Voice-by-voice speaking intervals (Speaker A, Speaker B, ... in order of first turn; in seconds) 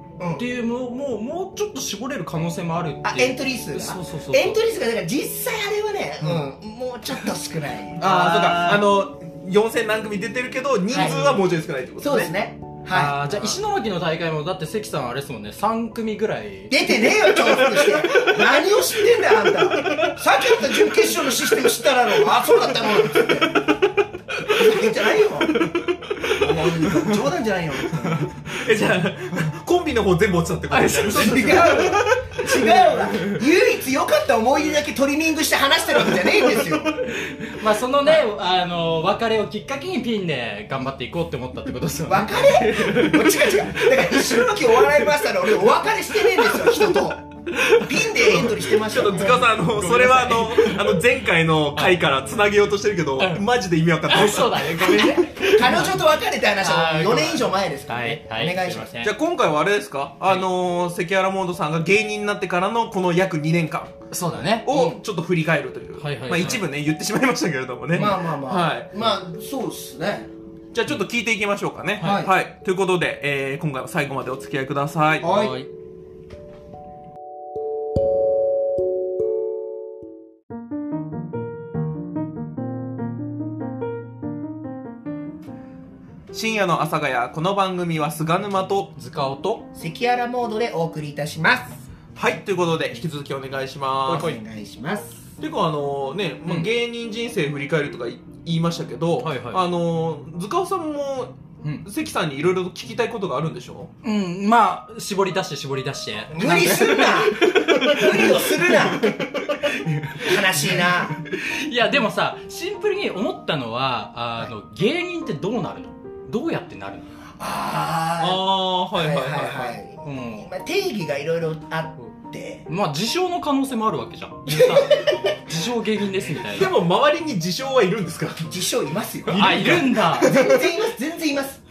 Speaker A: 0.2-0.5, 3.0-8.8, 10.9-11.4, 12.0-13.5, 16.7-23.6, 24.5-25.6, 26.3-28.3, 31.0-37.0, 42.1-47.2, 47.7-49.5, 55.2-59.0, 64.7-65.0, 67.9-70.3, 72.0-72.3, 75.2-75.6, 89.8-91.8, 94.1-95.2, 106.3-109.2, 110.1-111.2, 117.4-122.7, 124.5-125.1, 128.5-129.6, 130.1-131.6
Speaker B: 0.4-4.6, 8.0-8.8, 12.9-16.8, 30.7-31.9, 37.0-45.2, 46.4-47.0, 47.5-51.0, 51.7-52.0, 53.2-53.5, 54.1-56.0, 56.6-59.1, 64.1-64.7, 66.0-66.7, 72.0-72.3, 75.2-75.7, 89.0-89.6, 99.2-99.6, 104.0-117.1, 120.0-120.5, 122.7-126.7, 129.3-130.3
Speaker C: 8.0-12.3, 17.7-18.2, 19.9-20.2, 25.5-27.2, 28.5-33.4, 48.5-55.2, 59.0-63.9, 64.6-68.9, 70.7-75.3, 86.3-88.9, 92.2-94.3, 95.4-103.9, 118.2-119.8, 126.5-128.6, 129.2-130.8